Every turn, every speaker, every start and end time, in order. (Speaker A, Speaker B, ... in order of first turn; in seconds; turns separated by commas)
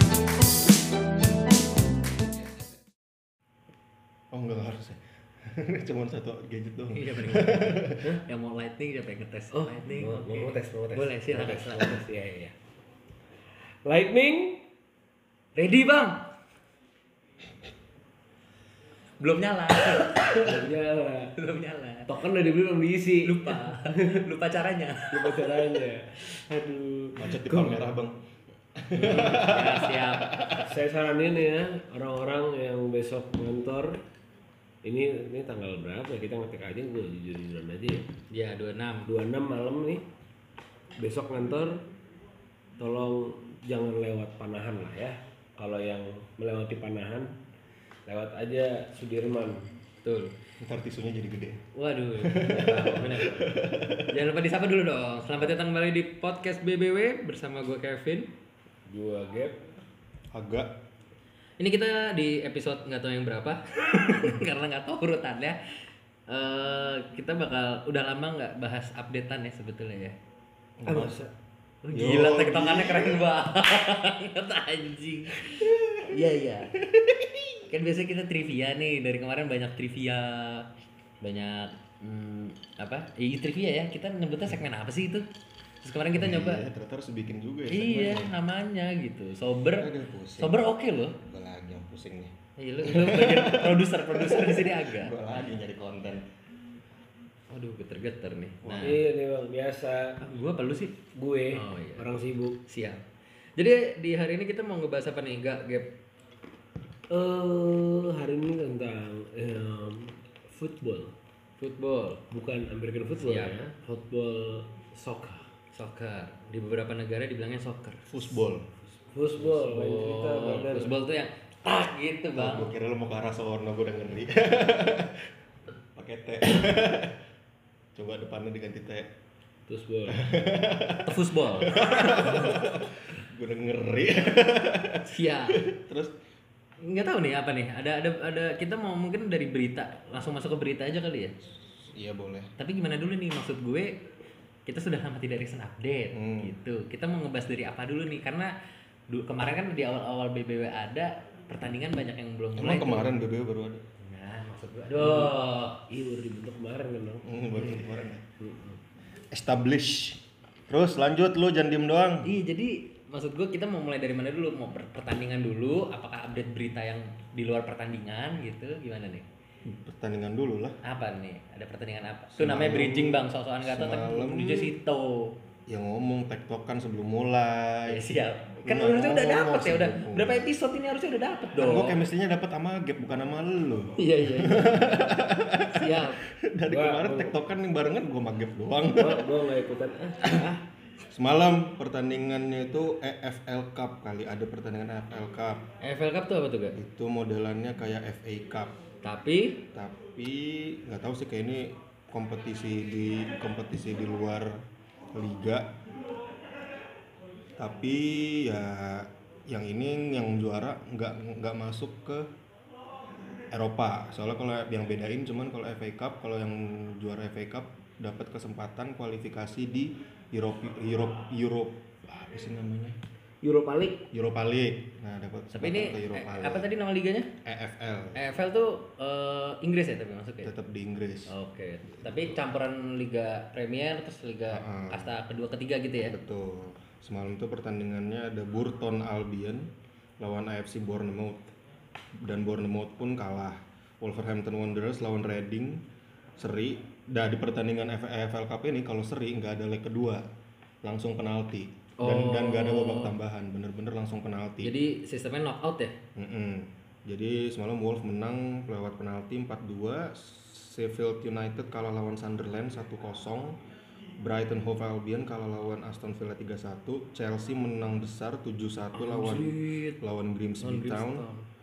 Speaker A: 4.3-8.1, Speaker B: 6.9-12.1, Speaker C: 9.5-12.5, Speaker C: 13.8-14.6, Speaker B: 15.6-16.2, Speaker B: 19.2-20.7, Speaker C: 20.1-21.3, Speaker B: 21.4-22.1, Speaker C: 22.1-24.3, Speaker B: 23.2-25.7, Speaker C: 25.1-27.9, Speaker A: 27.2-28.2, Speaker A: 28.8-30.7, Speaker B: 28.9-30.6, Speaker C: 30.6-34.0, Speaker C: 34.8-38.1, Speaker B: 38.3-39.1, Speaker C: 39.1-40.1, Speaker C: 41.0-41.8, Speaker C: 42.8-47.3, Speaker C: 48.1-49.7, Speaker B: 50.0-50.3, Speaker A: 50.6-51.6, Speaker B: 51.7-58.3, Speaker A: 52.2-54.2, Speaker C: 58.9-59.6, Speaker A: 60.3-60.8, Speaker B: 61.6-65.6, Speaker B: 66.3-70.2, Speaker A: 70.8-71.2, Speaker C: 70.9-71.3, Speaker B: 71.8-76.7, Speaker A: 71.9-73.3, Speaker A: 75.5-76.2, Speaker A: 76.9-77.6, Speaker B: 77.7-80.7, Speaker B: 81.2-85.3, Speaker B: 85.8-86.7, Speaker A: 86.2-88.3, Speaker B: 87.7-91.2, Speaker A: 89.8-96.2, Speaker B: 92.6-95.1, Speaker B: 97.5-99.0, Speaker A: 98.6-99.0, Speaker C: 98.8-100.2, Speaker B: 100.2-101.0, Speaker C: 101.1-102.6, Speaker B: 101.5-102.1, Speaker B: 102.7-103.0, Speaker B: 103.6-105.9, Speaker C: 107.1-111.1, Speaker B: 111.6-112.2, Speaker C: 112.3-115.3, Speaker B: 113.2-113.5, Speaker B: 115.0-118.1, Speaker A: 118.1-118.7, Speaker C: 119.0-121.0, Speaker B: 119.4-122.7, Speaker A: 122.4-125.3, Speaker A: 126.0-127.2, Speaker A: 128.0-129.1, Speaker C: 129.7-130.3, Speaker A: 130.1-136.1, Speaker B: 131.1-132.3, Speaker B: 135.1-135.6, Speaker B: 136.8-141.3, Speaker A: 141.6-142.5, Speaker B: 142.6-143.9, Speaker B: 144.7-148.5, Speaker A: 146.1-146.6, Speaker B: 149.1-153.1, Speaker A: 152.6-153.8, Speaker B: 154.0-155.8, Speaker C: 154.9-157.3, Speaker A: 157.2-158.2, Speaker C: 158.4-158.8, Speaker A: 159.3-162.3, Speaker B: 162.2-169.2, Speaker A: 169.7-170.8, Speaker B: 170.8-175.4, Speaker A: 172.3-174.7, Speaker A: 175.7-178.1, Speaker B: 177.9-182.0, Speaker A: 178.6-180.5, Speaker A: 181.6-189.3, Speaker B: 184.0-185.1, Speaker B: 185.6-186.2, Speaker C: 186.7-187.3, Speaker C: 188.9-190.6, Speaker A: 190.2-190.5, Speaker A: 191.1-195.7, Speaker B: 195.8-196.8, Speaker A: 196.7-198.8, Speaker B: 199.0-199.6, Speaker A: 199.7-205.7, Speaker A: 207.6-212.3, Speaker A: 213.5-223.0, Speaker C: 223.4-224.0, Speaker A: 224.1-226.7, Speaker B: 225.5-227.3, Speaker A: 227.4-228.2, Speaker B: 228.2-230.5, Speaker A: 230.4-231.3, Speaker B: 231.3-236.2, Speaker A: 231.9-232.4, Speaker A: 234.5-235.2, Speaker A: 236.1-239.7, Speaker A: 240.2-241.5, Speaker A: 242.2-245.8, Speaker A: 246.4-250.2, Speaker A: 250.8-254.7, Speaker B: 252.0-253.1, Speaker B: 254.6-256.0, Speaker A: 256.1-263.6, Speaker A: 264.2-271.3, Speaker B: 269.0-270.0, Speaker B: 270.6-271.5